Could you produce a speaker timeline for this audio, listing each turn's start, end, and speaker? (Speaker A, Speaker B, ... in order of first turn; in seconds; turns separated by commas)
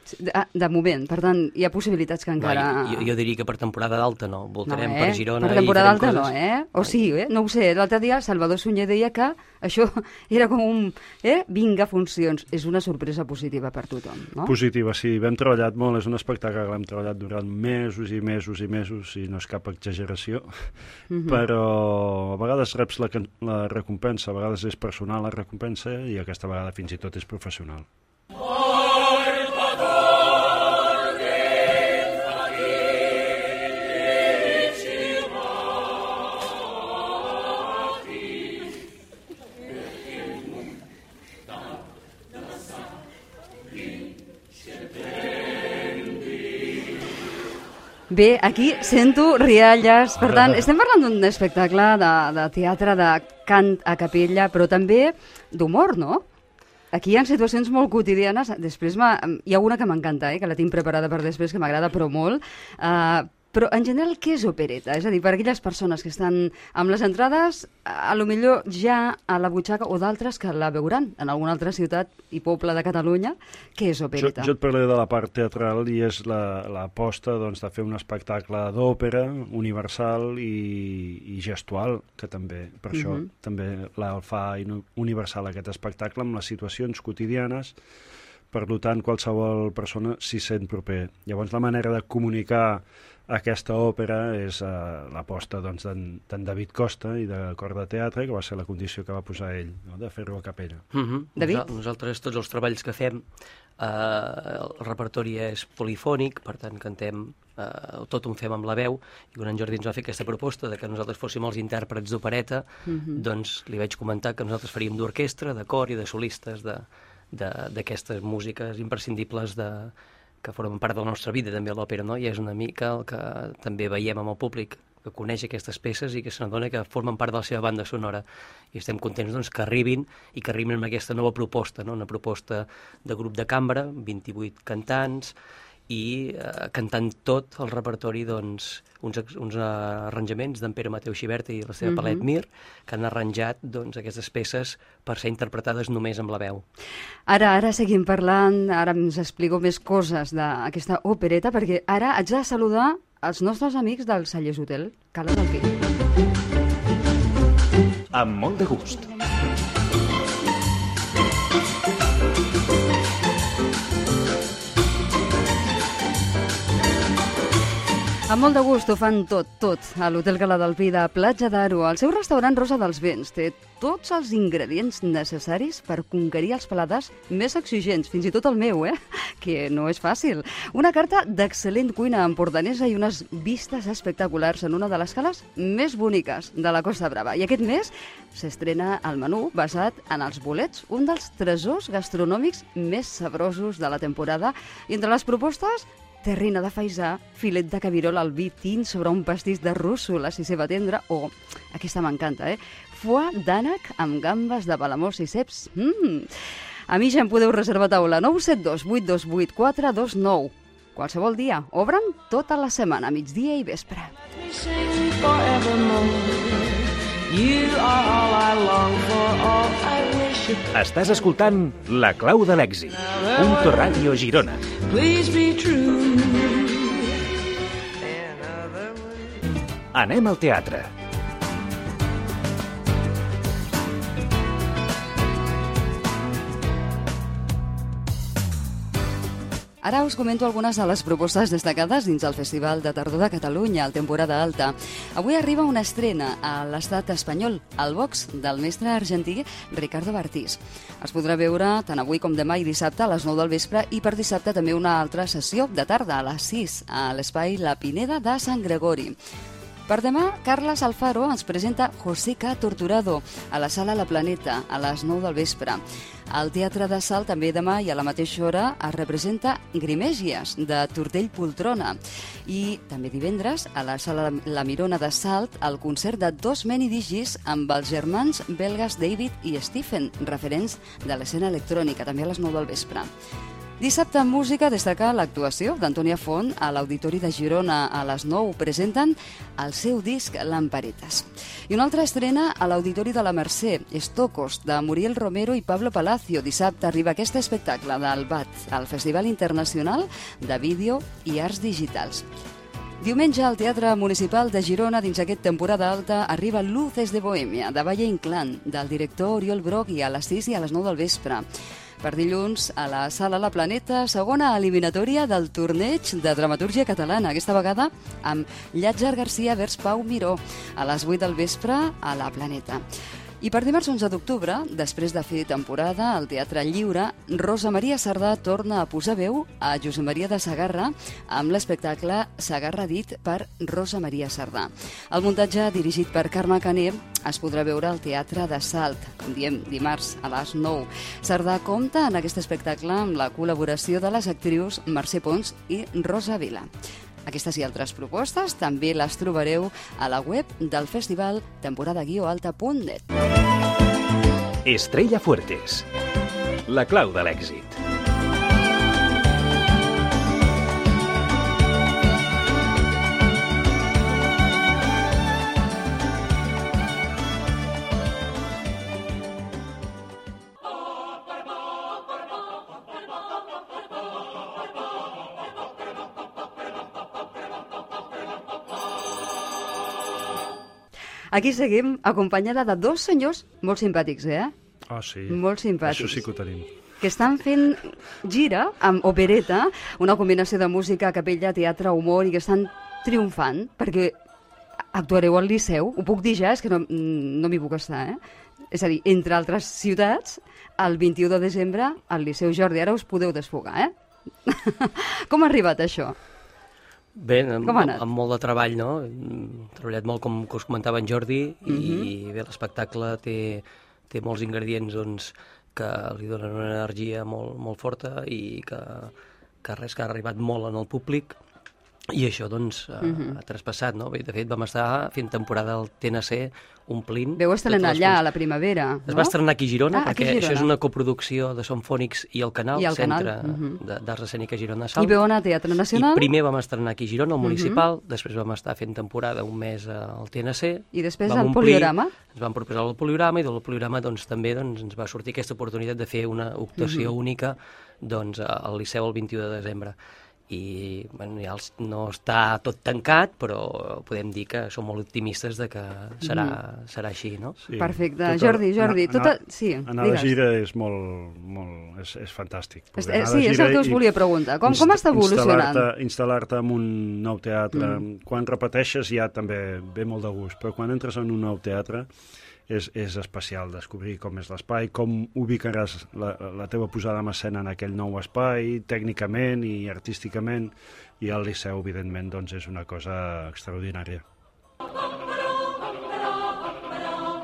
Speaker A: 0.1-3.1, Speaker B: 2.4-6.3, Speaker A: 4.7-14.5, Speaker C: 14.4-20.7, Speaker A: 21.1-21.4, Speaker C: 21.2-27.9, Speaker A: 48.1-56.2, Speaker C: 50.2-50.6, Speaker A: 56.9-74.5, Speaker C: 74.2-87.8, Speaker A: 82.9-83.3, Speaker C: 88.5-100.8, Speaker B: 100.9-103.2, Speaker A: 101.4-101.7, Speaker B: 103.8-135.3, Speaker A: 112.9-113.2, Speaker B: 135.9-146.6, Speaker A: 141.8-142.2, Speaker A: 147.3-155.7, Speaker D: 158.1-159.1, Speaker A: 168.3-214.1, Speaker E: 214.4-220.7, Speaker D: 220.7-224.7, Speaker E: 223.1-224.0, Speaker E: 224.8-227.2, Speaker E: 228.2-228.9, Speaker D: 229.9-230.9, Speaker A: 239.8-259.1, Speaker A: 259.9-283.1, Speaker A: 283.8-302.2, Speaker A: 303.0-311.4, Speaker A: 312.0-322.8, Speaker A: 323.4-346.7, Speaker A: 347.2-353.1, Speaker D: 354.6-355.9, Speaker D: 356.7-357.8, Speaker A: 381.3-384.5, Speaker C: 384.9-386.7, Speaker A: 385.3-386.2, Speaker A: 387.0-394.1, Speaker A: 394.9-398.2, Speaker A: 398.7-403.9, Speaker A: 404.4-406.2, Speaker B: 407.1-419.1, Speaker A: 407.6-408.0, Speaker A: 411.7-412.1, Speaker B: 419.6-421.4, Speaker B: 422.1-428.2, Speaker A: 423.0-423.4, Speaker A: 427.4-429.3, Speaker B: 429.1-435.1, Speaker A: 429.9-430.7, Speaker A: 432.8-433.8, Speaker A: 435.0-436.3, Speaker B: 435.9-449.9, Speaker A: 437.4-437.8, Speaker A: 440.9-442.1, Speaker A: 446.8-447.1, Speaker B: 450.5-457.6, Speaker A: 456.2-456.6, Speaker C: 457.6-464.1, Speaker A: 457.8-460.3, Speaker A: 463.0-465.9, Speaker C: 464.6-472.1, Speaker A: 467.7-468.0, Speaker C: 472.7-484.2